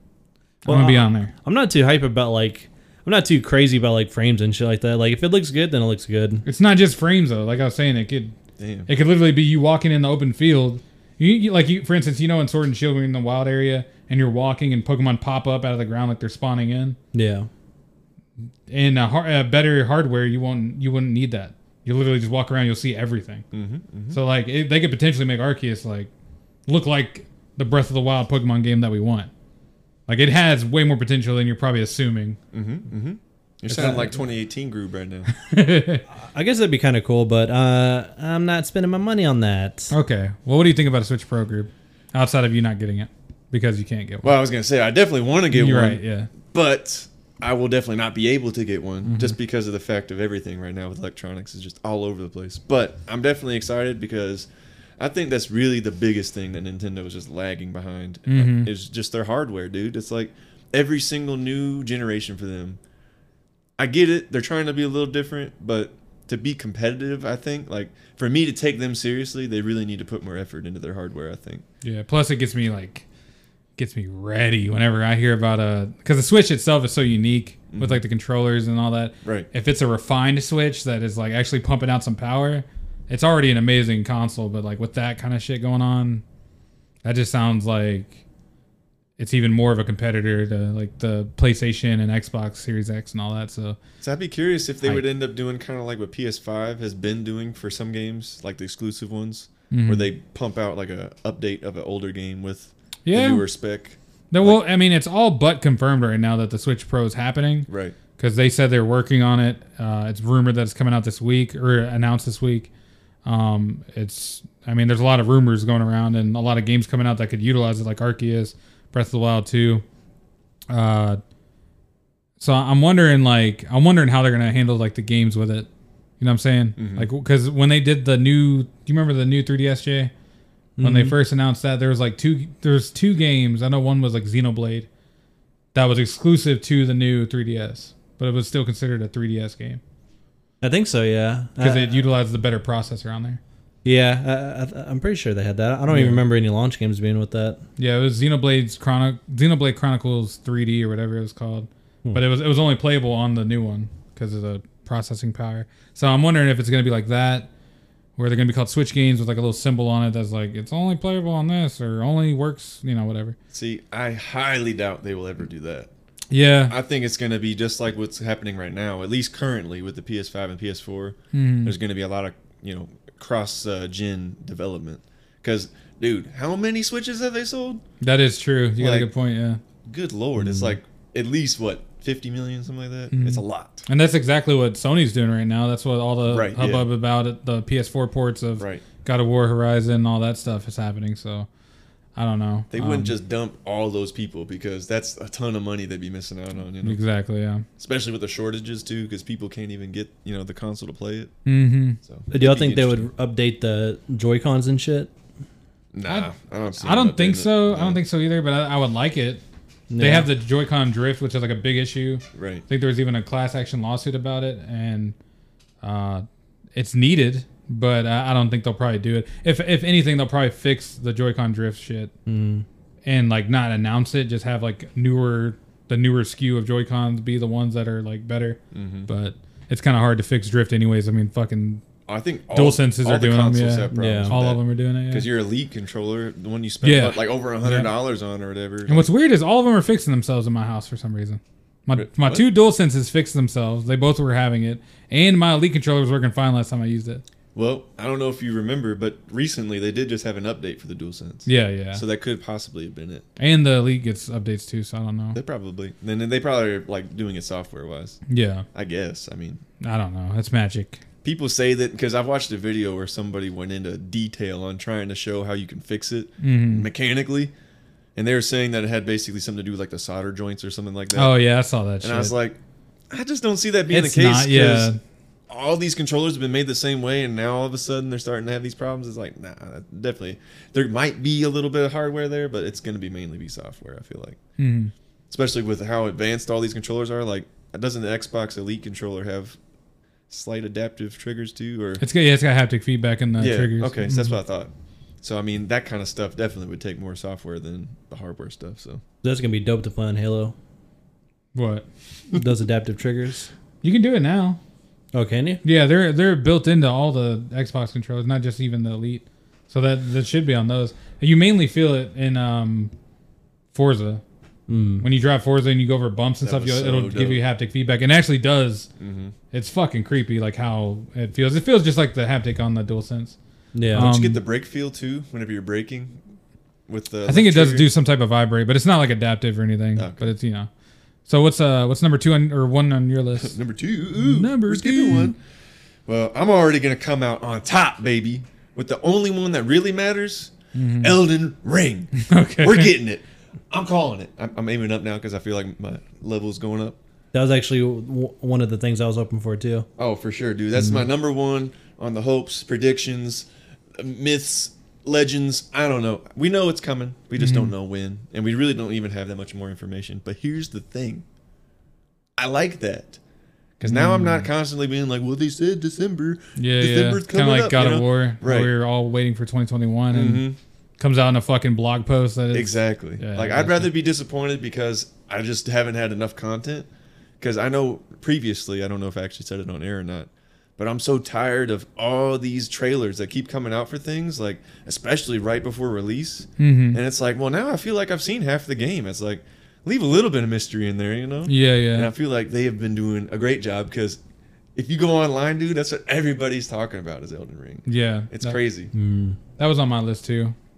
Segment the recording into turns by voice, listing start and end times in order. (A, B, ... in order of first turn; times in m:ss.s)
0:00.7-0:01.3 A
0:00.7-0:06.4 B
0:06.4-0:08.4 A
0:08.6-0:08.9 C
0:08.9-0:17.0 A
0:17.1-0:17.5 B
0:18.7-0:23.5 A
0:23.5-0:24.2 C
0:24.1-0:26.1 A
0:26.7-0:29.3 A
0:30.1-0:32.4 A
0:32.5-0:35.3 C
0:33.7-0:34.2 A
0:35.3-0:36.0 A
0:36.2-0:39.9 B
0:39.9-0:44.3 A
0:44.2-1:02.8 C
0:45.5-0:46.3 A
0:49.0-0:49.4 A
0:58.3-0:58.7 A
1:03.8-1:11.6 C
1:11.8-1:13.0 A
1:13.8-1:26.2 A
1:17.7-1:18.0 C
1:19.2-1:19.5 C
1:27.0-1:28.2 A
1:29.2-1:33.8 A
1:34.0-1:44.6 C
1:39.7-1:40.1 A
1:43.0-1:43.4 A
1:44.3-1:52.7 A
1:47.7-1:48.0 C
1:53.2-1:59.8 A
2:00.7-2:01.2 A
2:02.4-2:05.7 A
2:06.2-2:10.1 A
2:06.8-2:07.1 C
2:10.8-2:11.2 B
2:10.8-2:14.9 A
2:15.7-2:19.8 A
2:20.6-2:21.9 B
2:21.6-2:23.4 A
2:23.8-2:27.6 B
2:25.9-2:26.2 A
2:27.8-2:37.5 A
2:38.2-2:43.4 A
2:43.5-2:45.9 C
2:46.3-2:46.8 A
2:46.7-2:57.8 C
2:51.3-2:51.8 A
2:58.0-2:59.6 A
2:58.8-2:59.1 C
2:59.8-3:03.8 C
3:00.4-3:00.7 B
3:03.1-3:11.5 A
3:06.3-3:06.9 C
3:08.6-3:08.8 C
3:12.2-3:13.2 A
3:12.7-3:17.0 C
3:16.8-3:17.6 A
3:17.8-3:21.3 C
3:21.5-3:22.0 A
3:22.0-3:23.1 C
3:22.3-3:25.1 B
3:25.9-3:28.0 C
3:26.8-3:29.4 A
3:29.9-3:30.3 B
3:30.0-3:35.2 A
3:32.3-3:32.6 C
3:35.8-3:36.2 A
3:36.8-3:42.1 A
3:42.3-3:42.6 B
3:43.0-3:51.8 A
3:48.7-3:49.1 C
3:52.1-3:59.1 C
3:52.5-3:55.3 A
3:53.9-3:54.4 B
3:56.8-3:57.9 A
3:58.9-4:07.2 A
4:02.0-4:02.4 C
4:07.6-4:13.3 C
4:11.5-4:12.0 A
4:13.4-4:15.4 A
4:15.4-4:18.2 C
4:18.3-4:18.7 A
4:18.7-4:19.6 C
4:19.8-4:21.0 A
4:21.2-4:27.5 C
4:26.4-4:26.9 A
4:28.2-4:31.4 C
4:31.2-4:32.4 A
4:32.0-4:32.6 C
4:33.1-4:34.9 C
4:33.9-4:35.0 A
4:35.5-4:44.4 C
4:44.6-4:44.9 A
4:45.3-4:49.6 C
4:50.3-4:52.0 C
4:52.0-4:54.4 A
4:53.4-4:59.0 C
4:59.2-5:00.6 B
5:01.6-5:01.9 A
5:02.3-5:03.5 B
5:03.8-5:04.6 A
5:05.1-5:05.6 B
5:05.6-5:12.9 A
5:13.7-5:14.2 A
5:14.7-5:15.1 B
5:15.0-5:18.9 A
5:16.4-5:17.4 C
5:19.0-5:19.4 C
5:19.5-5:23.4 A
5:23.8-5:24.1 B
5:23.9-5:24.4 A
5:23.9-5:26.2 C
5:26.9-5:27.9 C
5:27.3-5:30.7 A
5:30.0-5:30.3 C
5:31.3-5:33.6 A
5:33.4-5:35.4 C
5:34.2-5:35.3 A
5:36.1-5:47.0 C
5:40.7-5:41.2 A
5:42.2-5:42.9 A
5:47.3-5:49.9 B
5:50.0-6:01.2 C
5:57.4-5:57.7 A
6:02.4-6:03.2 C
6:03.8-6:08.7 C
6:03.8-6:04.5 A
6:06.6-6:10.5 A
6:10.1-6:10.6 C
6:11.0-6:13.9 A
6:12.5-6:16.9 C
6:17.4-6:34.2 C
6:26.6-6:27.0 A
6:31.5-6:32.1 A
6:34.8-6:38.9 C
6:37.9-6:38.6 A
6:38.9-6:39.4 B
6:39.6-6:40.6 A